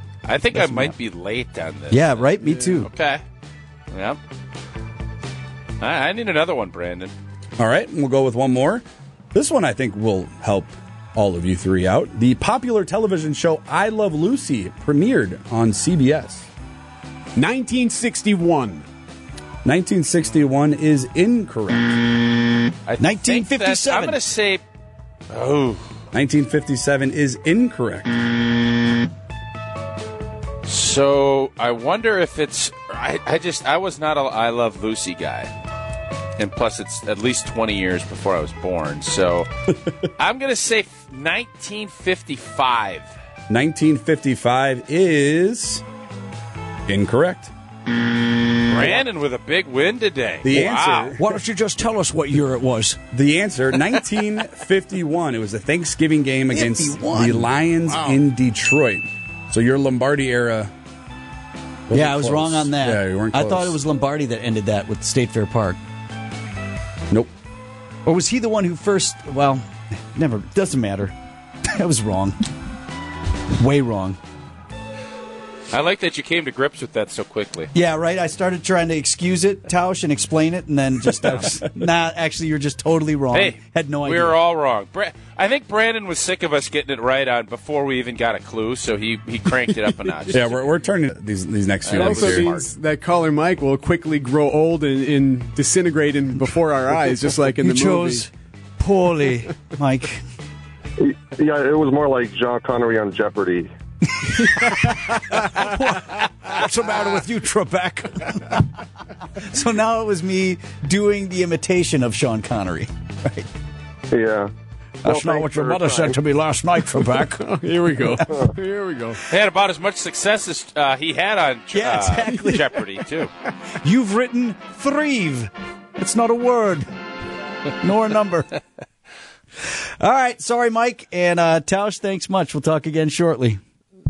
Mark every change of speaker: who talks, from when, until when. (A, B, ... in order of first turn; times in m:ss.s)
0:00.2-0:03.2 A
0:00.5-0:00.9 B
0:01.9-0:02.9 B
0:03.9-0:04.2 A
0:05.8-0:07.1 A
0:07.6-0:16.5 C
0:17.4-0:18.8 D
0:19.6-0:22.0 C
0:22.8-0:24.6 A
0:23.0-0:24.2 B
0:25.3-0:25.8 A
0:26.1-0:28.2 C
0:30.6-0:35.5 A
0:36.4-0:39.5 A
0:40.2-0:43.1 A
0:43.5-0:45.8 C
0:46.9-0:47.5 C
0:48.7-0:51.2 A
0:50.4-0:51.2 C
0:51.2-0:53.0 B
0:53.1-1:00.7 C
0:56.5-0:57.5 B
0:57.9-0:58.2 A
1:01.9-1:03.8 C
1:01.9-1:05.8 B
1:08.0-1:11.1 B
1:11.6-1:12.4 B
1:13.6-1:14.2 B
1:15.7-1:17.7 A
1:17.7-1:24.4 B
1:23.3-1:30.6 A
1:30.3-1:32.5 C
1:31.8-1:32.7 A
1:31.9-1:38.3 D
1:37.6-1:40.2 B
1:41.0-1:43.7 E
1:44.2-1:48.7 B
1:49.4-1:53.5 B
1:54.1-1:54.5 E
1:55.0-1:56.1 E
1:55.0-1:57.4 B
1:57.4-1:59.2 D
1:59.3-2:03.3 A
2:01.7-2:02.8 B
2:03.8-2:06.9 B
2:07.8-2:08.5 B
2:10.0-2:13.6 B